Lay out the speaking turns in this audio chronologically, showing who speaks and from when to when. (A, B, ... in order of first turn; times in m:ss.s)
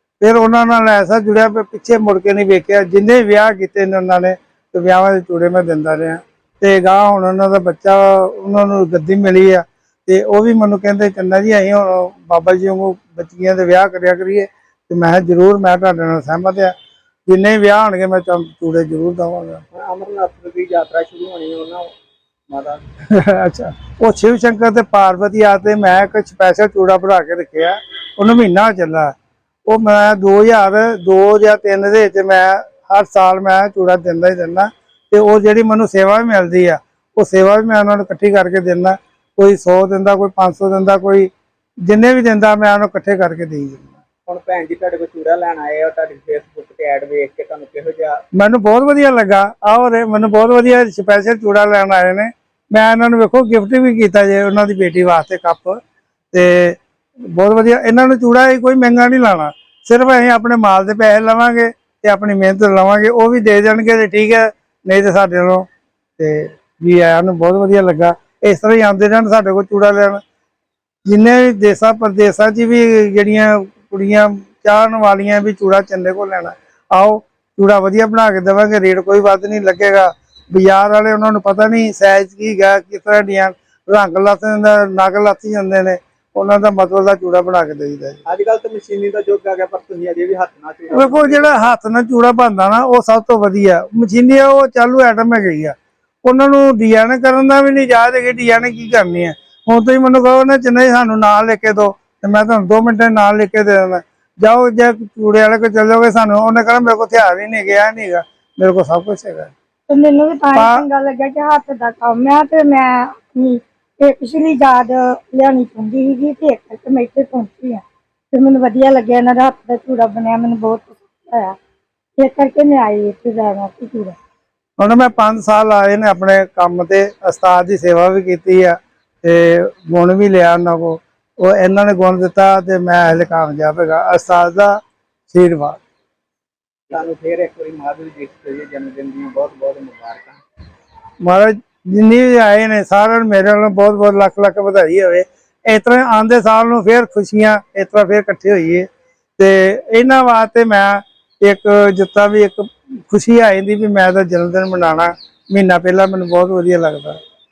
0:00.2-0:16.7 A
0:17.3-0:19.6 A
0:19.7-0:21.9 B
0:22.5-0:22.9 B
0:23.1-0:29.1 A
0:29.7-0:41.3 A
0:41.9-0:44.0 A
0:44.3-0:48.2 B
0:48.4-0:55.8 A
0:56.3-0:56.8 A
0:57.3-1:05.7 A
1:06.2-1:10.2 A
1:11.1-1:28.2 A
1:28.3-1:31.6 B
1:30.9-1:49.5 A
1:49.9-2:01.6 C
1:50.5-1:50.8 A
2:02.2-2:04.2 C
2:04.8-2:14.7 A
2:15.3-2:15.8 A
2:16.9-2:20.4 B
2:21.2-2:28.9 A
2:29.4-2:37.2 A